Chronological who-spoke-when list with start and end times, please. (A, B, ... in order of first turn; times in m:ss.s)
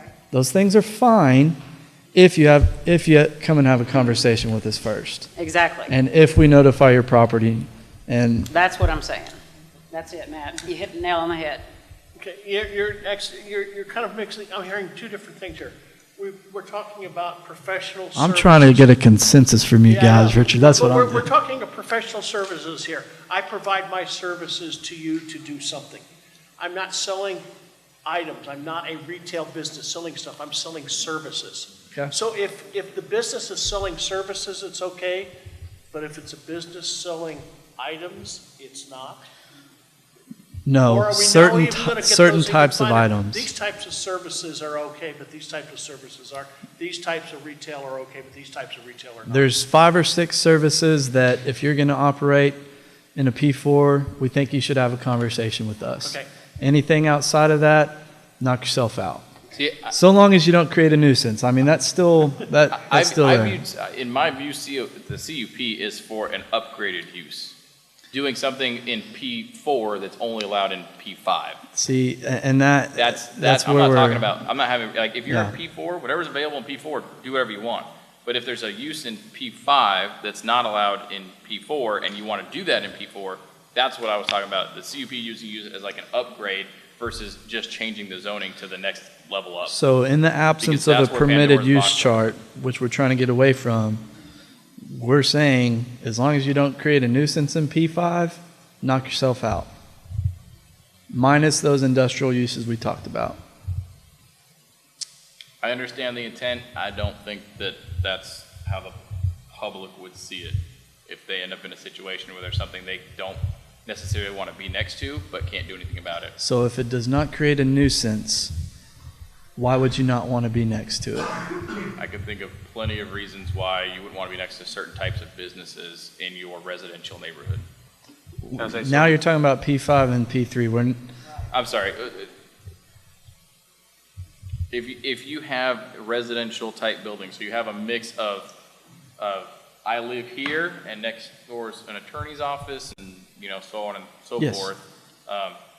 0:00.3-0:01.6 A
0:02.1-0:05.3 A
0:05.4-0:05.9 B
0:05.9-0:08.5 A
0:08.5-0:09.4 B
0:09.9-0:11.6 B
0:12.2-0:18.9 C
0:18.1-0:21.2 A
0:19.9-0:26.0 C
0:26.6-0:27.4 C
0:28.0-0:35.3 C
0:35.9-0:39.2 C
0:40.7-0:43.5 A
0:40.8-0:49.5 C
0:49.3-0:52.6 A
0:53.1-0:59.2 A
0:56.0-0:56.3 C
0:59.5-0:59.9 D
0:59.9-1:03.6 A
1:02.7-1:07.5 D
1:08.1-1:11.6 D
1:11.8-1:14.3 A
1:12.9-1:29.8 D
1:15.3-1:15.5 A
1:29.7-1:34.0 A
1:30.6-1:32.3 D
1:34.9-1:39.7 A
1:41.1-1:43.4 A
1:45.6-1:49.0 D
1:49.5-1:56.3 D
1:56.4-1:58.5 A
1:59.6-2:01.6 A
2:02.0-2:07.6 D
2:08.4-2:11.0 A
2:08.5-2:09.1 D
2:11.5-2:12.3 D
2:14.7-2:18.5 D
2:19.2-2:25.6 D
2:24.4-2:24.7 A